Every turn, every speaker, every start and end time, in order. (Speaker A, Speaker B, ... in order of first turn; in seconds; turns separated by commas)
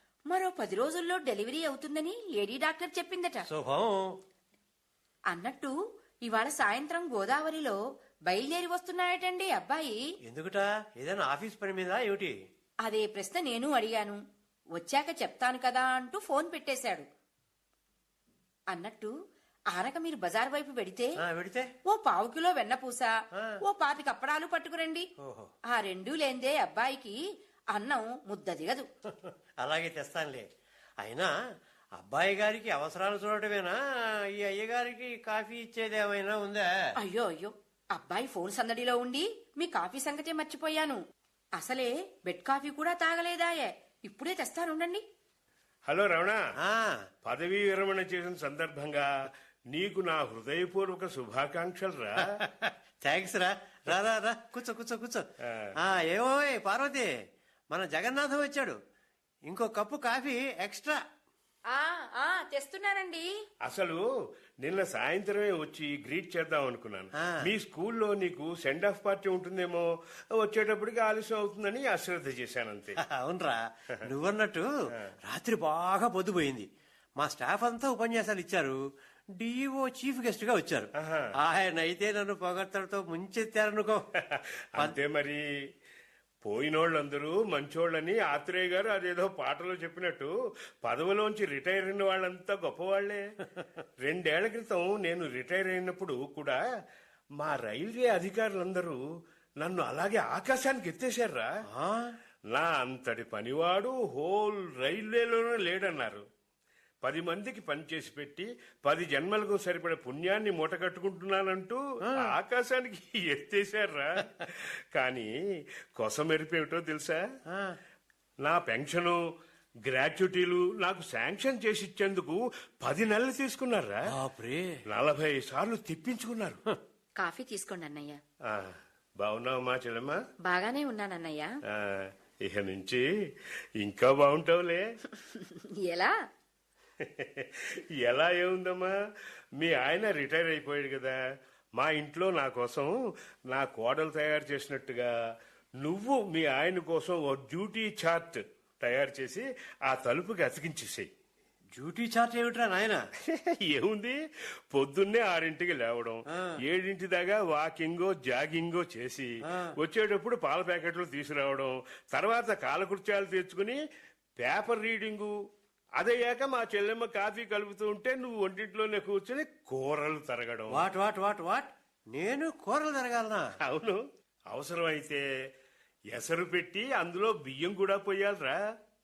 Speaker A: 0.3-3.5, Speaker B: 3.5-3.9, Speaker A: 5.3-5.7, Speaker A: 6.2-10.0, Speaker B: 10.3-12.3, Speaker A: 12.8-14.2, Speaker A: 14.8-17.1, Speaker A: 18.7-19.1, Speaker A: 19.7-21.1, Speaker B: 21.2-21.7, Speaker A: 21.9-23.1, Speaker A: 23.6-25.1, Speaker B: 25.2-25.5, Speaker A: 25.7-27.2, Speaker A: 27.7-28.9, Speaker B: 29.1-30.5, Speaker B: 31.0-31.3, Speaker B: 32.0-33.8, Speaker B: 34.3-36.7, Speaker A: 37.0-41.0, Speaker A: 41.6-45.0, Speaker C: 45.9-46.4, Speaker B: 46.6-47.0, Speaker C: 47.2-52.4, Speaker B: 52.3-55.2, Speaker B: 55.8-57.1, Speaker B: 57.7-58.8, Speaker B: 59.5-61.0, Speaker A: 61.7-63.3, Speaker C: 63.6-64.0, Speaker C: 64.6-73.0, Speaker B: 73.0-74.7, Speaker B: 75.2-76.7, Speaker B: 77.2-78.8, Speaker B: 79.4-84.0, Speaker C: 81.0-81.3, Speaker C: 84.3-85.4, Speaker C: 86.5-90.3, Speaker C: 90.8-93.2, Speaker C: 94.0-96.6, Speaker C: 97.4-99.0, Speaker C: 99.6-101.5, Speaker B: 101.7-102.1, Speaker C: 102.5-106.2, Speaker C: 107.0-115.3, Speaker B: 112.1-112.3, Speaker C: 116.0-117.2, Speaker B: 117.5-117.8, Speaker C: 118.4-119.2, Speaker C: 119.9-124.0, Speaker B: 124.1-124.8, Speaker C: 124.9-126.6, Speaker A: 127.2-128.2, Speaker C: 128.5-130.2, Speaker A: 130.4-131.5, Speaker C: 131.8-133.1, Speaker C: 133.8-134.8, Speaker A: 135.2-136.1, Speaker C: 137.0-138.9, Speaker C: 139.6-141.2, Speaker C: 141.8-142.9, Speaker C: 143.5-145.1, Speaker C: 145.8-151.1, Speaker B: 151.8-153.0, Speaker C: 153.2-154.2, Speaker C: 154.7-163.8, Speaker C: 164.4-165.3, Speaker C: 166.0-170.8, Speaker B: 170.7-173.5, Speaker C: 173.6-174.0, Speaker C: 174.5-175.2, Speaker C: 176.1-178.6